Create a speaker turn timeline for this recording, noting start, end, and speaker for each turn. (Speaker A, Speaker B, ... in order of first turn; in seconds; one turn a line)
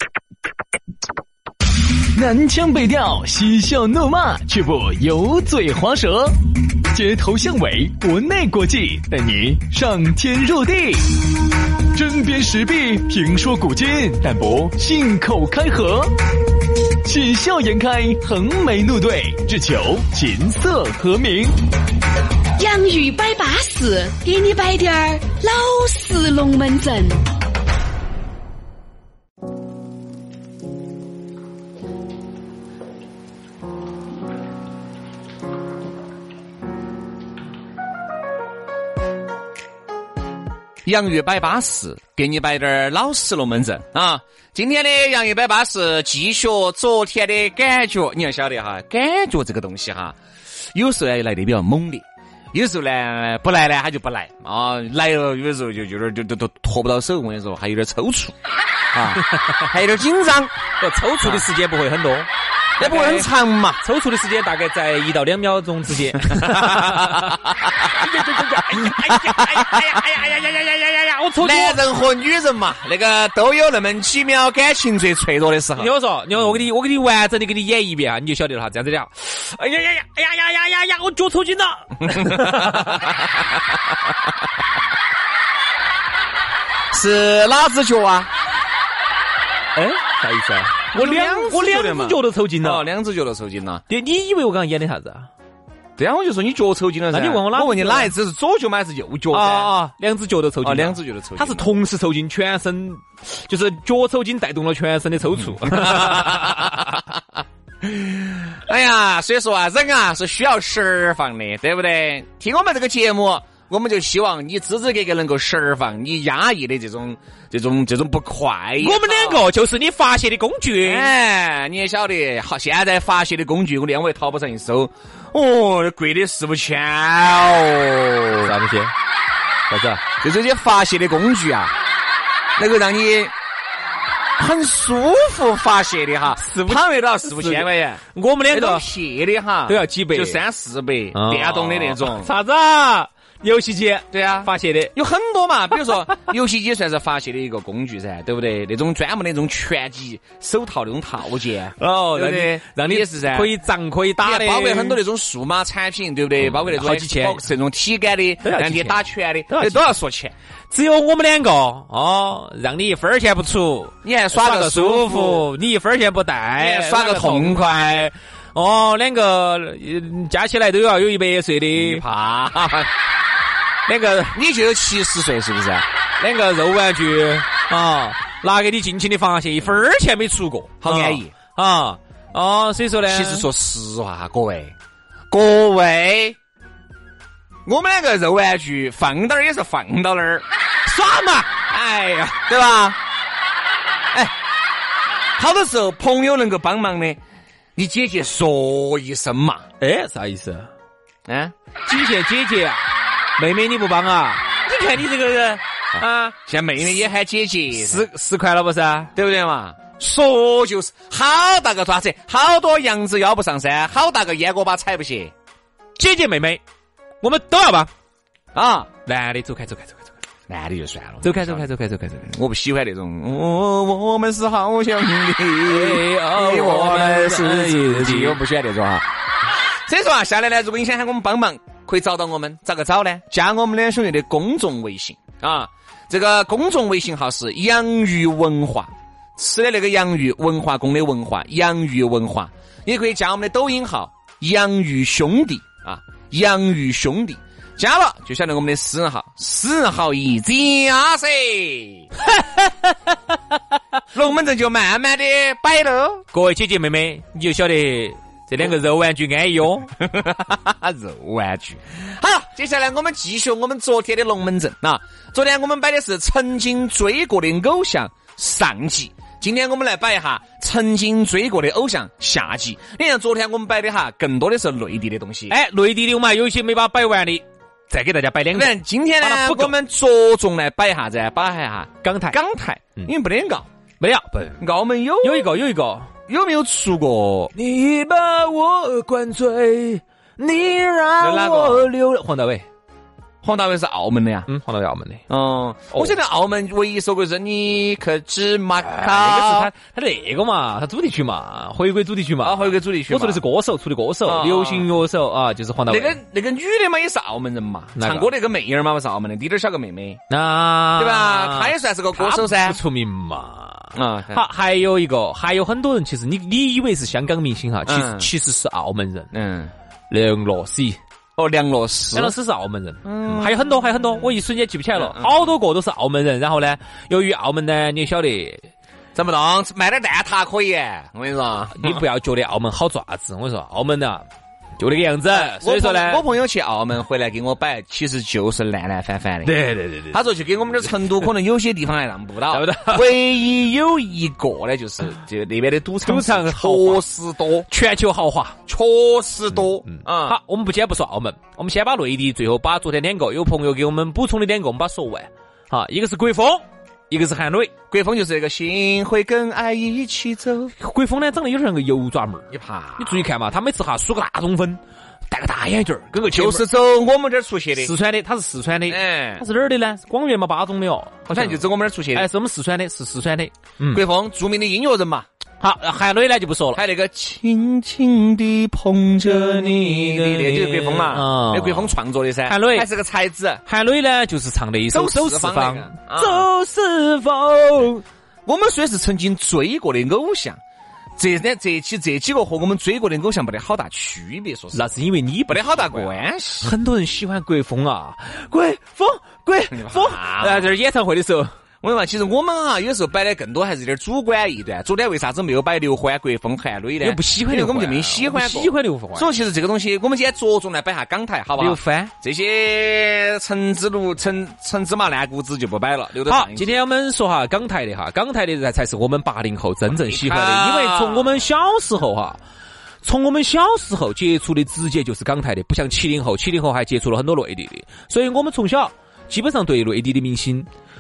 Speaker A: 2.1-6.4
Speaker A: 6.9-11.2
Speaker A: 11.9-16.1
Speaker A: 17.0-21.6
Speaker B: 22.6-27.2
Speaker C: 40.9-58.4
Speaker C: 58.9-60.5
Speaker D: 59.3-59.6
Speaker D: 60.8-63.3
Speaker C: 62.8-63.8
Speaker D: 63.8-71.8
Speaker C: 66.2-70.0
Speaker C: 71.4-75.9
Speaker D: 75.8-83.1
Speaker C: 82.0-83.2
Speaker C: 86.9-88.3
Speaker D: 89.8-92.9
Speaker C: 90.9-93.8
Speaker D: 93.9-95.3
Speaker C: 96.0-99.7
Speaker D: 97.1-98.1
Speaker D: 99.3-107.0
Speaker C: 100.6-101.7
Speaker C: 105.6-107.2
Speaker C: 107.8-119.5
Speaker D: 118.8-121.1
Speaker C: 120.8-128.5
Speaker D: 128.4-128.9
Speaker D: 129.7-130.0
Speaker C: 130.2-131.7
Speaker C: 132.6-133.3
Speaker C: 134.4-142.3
Speaker D: 136.4-138.9
Speaker D: 139.7-140.4
Speaker D: 141.1-144.9
Speaker C: 144.1-153.5
Speaker D: 151.8-155.0
Speaker C: 154.2-160.3
Speaker D: 156.4-157.4
Speaker D: 158.4-159.8
Speaker D: 160.7-167.6
Speaker C: 164.0-165.5
Speaker C: 166.6-168.1
Speaker D: 168.6-172.0
Speaker C: 171.8-172.9
Speaker D: 173.9-174.4
Speaker C: 174.3-175.9
Speaker D: 176.2-183.5
Speaker C: 180.8-181.3
Speaker C: 183.1-184.8
Speaker C: 185.3-186.4
Speaker C: 187.7-190.5
Speaker D: 190.9-192.4
Speaker C: 192.5-193.0
Speaker C: 195.4-197.2
Speaker C: 197.8-199.7
Speaker D: 199.8-200.7
Speaker C: 201.3-201.5
Speaker D: 201.9-202.9
Speaker D: 203.4-206.4
Speaker C: 205.9-208.1
Speaker D: 207.8-209.1
Speaker C: 209.2-215.3
Speaker D: 216.0-216.6
Speaker D: 217.2-217.9
Speaker C: 218.5-218.9
Speaker D: 219.1-220.1
Speaker C: 220.5-221.7
Speaker D: 221.2-222.3
Speaker C: 222.3-229.1
Speaker D: 225.7-228.4
Speaker C: 229.6-252.1
Speaker D: 252.3-252.9
Speaker C: 254.1-256.2
Speaker D: 256.3-259.9
Speaker C: 260.0-275.6
Speaker D: 275.5-279.8
Speaker C: 278.5-283.7
Speaker D: 282.0-282.4
Speaker D: 284.0-284.7
Speaker C: 284.6-285.6
Speaker D: 285.2-286.1
Speaker C: 286.3-287.5
Speaker D: 287.5-292.7
Speaker C: 291.2-291.9
Speaker C: 293.4-294.5
Speaker D: 294.5-295.2
Speaker C: 295.3-299.7
Speaker D: 298.8-306.2
Speaker C: 302.4-303.4
Speaker C: 304.2-304.9
Speaker C: 305.9-310.2
Speaker D: 308.0-308.3
Speaker D: 310.3-319.3
Speaker C: 311.0-312.8
Speaker C: 313.9-314.4
Speaker C: 317.9-318.3
Speaker C: 319.3-319.7
Speaker D: 320.1-321.0
Speaker C: 321.4-322.4
Speaker D: 322.1-328.7
Speaker C: 323.0-323.7
Speaker C: 324.9-325.4
Speaker C: 329.1-332.0
Speaker D: 331.7-334.3
Speaker D: 334.8-336.2
Speaker C: 335.3-347.7
Speaker D: 339.4-340.2
Speaker D: 342.5-343.2
Speaker D: 346.1-347.0
Speaker D: 347.7-348.6
Speaker C: 348.7-350.4
Speaker D: 349.9-357.7
Speaker C: 357.9-360.8
Speaker D: 360.8-366.6
Speaker C: 362.5-363.3
Speaker C: 366.3-367.9
Speaker D: 367.8-374.0
Speaker C: 368.9-369.4
Speaker C: 371.3-372.3
Speaker C: 373.9-375.3
Speaker D: 375.6-376.8
Speaker C: 376.8-383.6
Speaker D: 379.3-381.9
Speaker D: 382.5-382.9
Speaker D: 383.7-388.0
Speaker C: 384.9-386.5
Speaker C: 388.5-390.6
Speaker C: 391.2-395.0
Speaker D: 394.7-401.5
Speaker C: 395.5-396.7
Speaker C: 399.7-400.7
Speaker C: 401.8-416.8
Speaker D: 407.0-409.3
Speaker D: 411.6-412.1
Speaker D: 416.3-422.4
Speaker C: 419.9-421.4
Speaker D: 423.0-430.7